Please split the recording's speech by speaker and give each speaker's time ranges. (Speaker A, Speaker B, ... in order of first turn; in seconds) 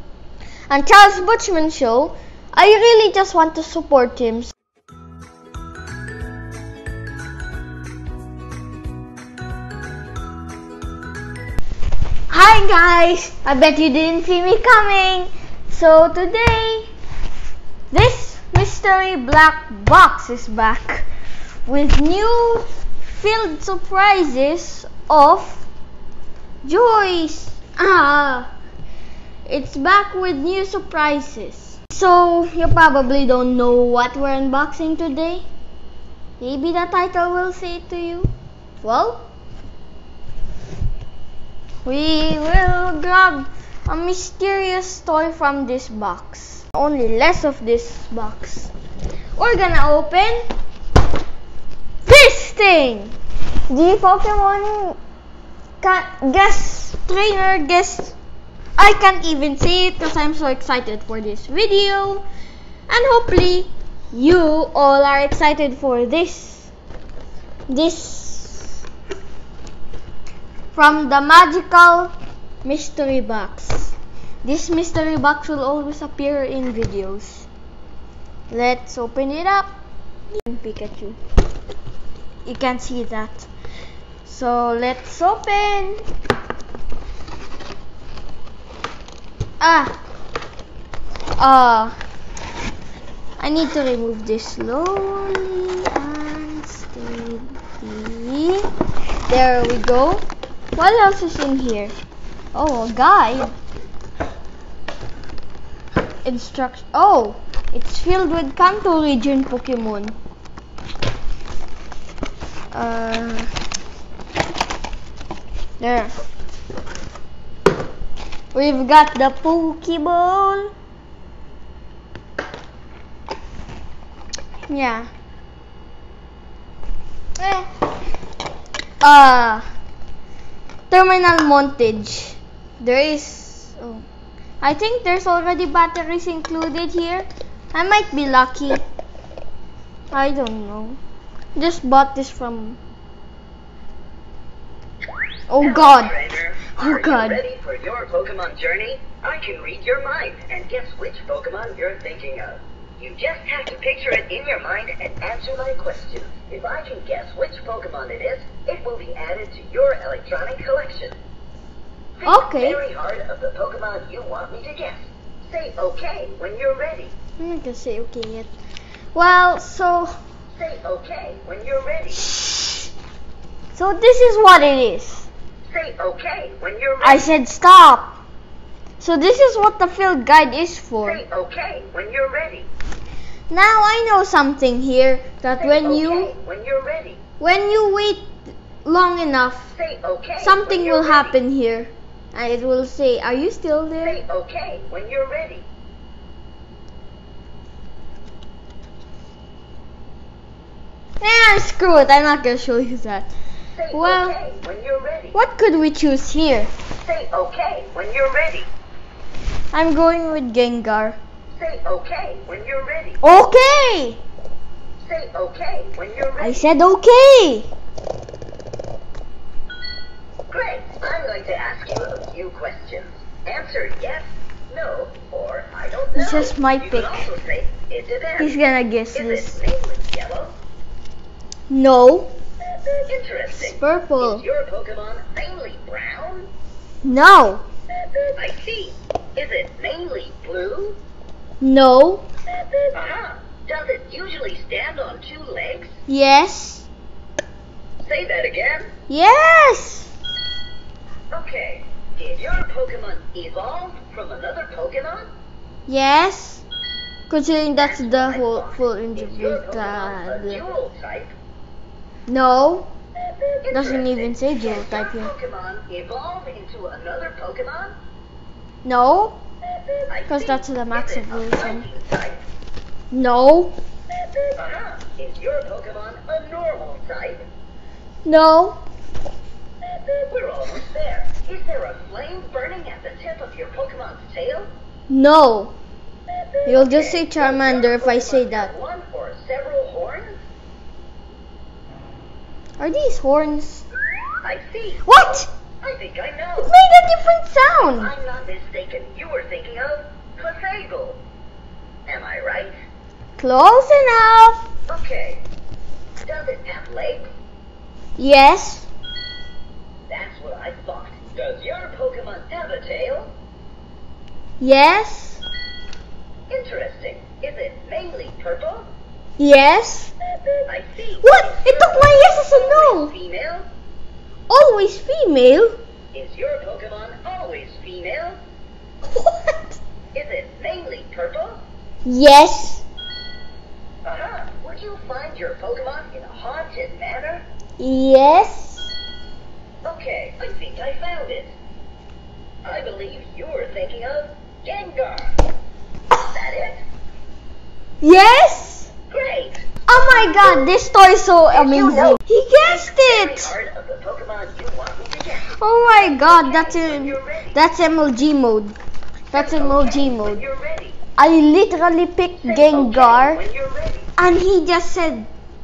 Speaker A: 0.7-4.5, 12.3-16.9, 17.9-21.1, 21.7-25.6, 26.6-28.5, 29.4-35.5, 36.4-38.3, 38.8-39.3, 41.8-48.7, 49.4-50.5, 52.0-53.2, 53.7-55.0, 55.8-58.2, 58.8-62.2, 62.9-66.7, 67.7-68.8, 70.7-77.5, 78.5-79.7, 80.3-81.2, 82.4-83.5, 84.2-86.0, 89.6-89.9, 91.4-91.9, 93.4-98.6, 99.3-101.9, 102.5-103.5, 106.2-110.2, 112.7-113.5, 115.8-116.1, 118.5-120.7, 124.7-125.1, 127.4-127.7, 129.0-129.6, 130.9-134.0, 134.6-138.8, 140.1-141.0, 141.5-142.8, 145.5-147.4, 162.2-162.8, 167.4-168.5, 169.1-170.1, 172.3-172.9, 173.7-175.3, 177.0-178.2, 179.0-181.2, 183.5-186.3, 187.4-189.7, 190.4-194.2, 201.2-203.3, 203.9-204.4, 205.3-206.7, 209.7-211.2, 213.2-214.2, 216.4-217.7, 226.1-227.2, 228.4-229.6, 231.7-232.3, 233.5-234.4, 237.0-237.6, 241.6-242.3, 246.1-246.9, 249.1-250.1, 255.9-256.6, 257.3-260.6, 262.3-262.9, 263.7-265.3, 268.8-269.4, 270.3-271.9, 273.1-273.8, 278.2-278.8, 285.1-285.7, 286.6-288.7, 292.8-293.9, 295.0-295.5, 296.6-298.1, 303.4-304.6, 308.2-308.9, 314.6-315.4, 319.4-320.1, 321.2-323.1, 324.5-325.8, 329.2-329.8, 332.1-332.8, 337.8-338.9, 348.0-348.9, 349.9-353.5, 355.4-358.8, 359.3-360.4, 361.2-363.4, 364.2-365.3
Speaker B: 145.6-161.2, 162.2-167.1, 170.5-172.3, 175.7-177.2, 181.0-182.7, 185.5-187.2, 189.7-191.4, 194.0-195.7, 203.8-205.4, 207.0-208.7, 211.5-213.2, 215.0-216.6, 220.5-228.6, 229.1-230.5, 233.0-236.5, 238.3-241.0, 242.9-246.0, 248.0-248.9, 251.3-255.3, 257.8-261.3, 263.6-267.9, 270.1-272.4, 274.6-277.5, 280.2-284.7, 286.8-290.4, 294.4-296.7, 297.9-301.2, 302.1-302.8, 304.9-305.4, 306.2-307.3, 310.1-313.3, 316.5-318.9, 320.6-323.7, 326.1-328.4, 330.1-331.6, 334.0-337.4, 339.8-341.6, 342.6-345.4, 346.2-346.8, 349.1-350.7, 351.5-357.6, 359.3-361.0, 362.4-364.1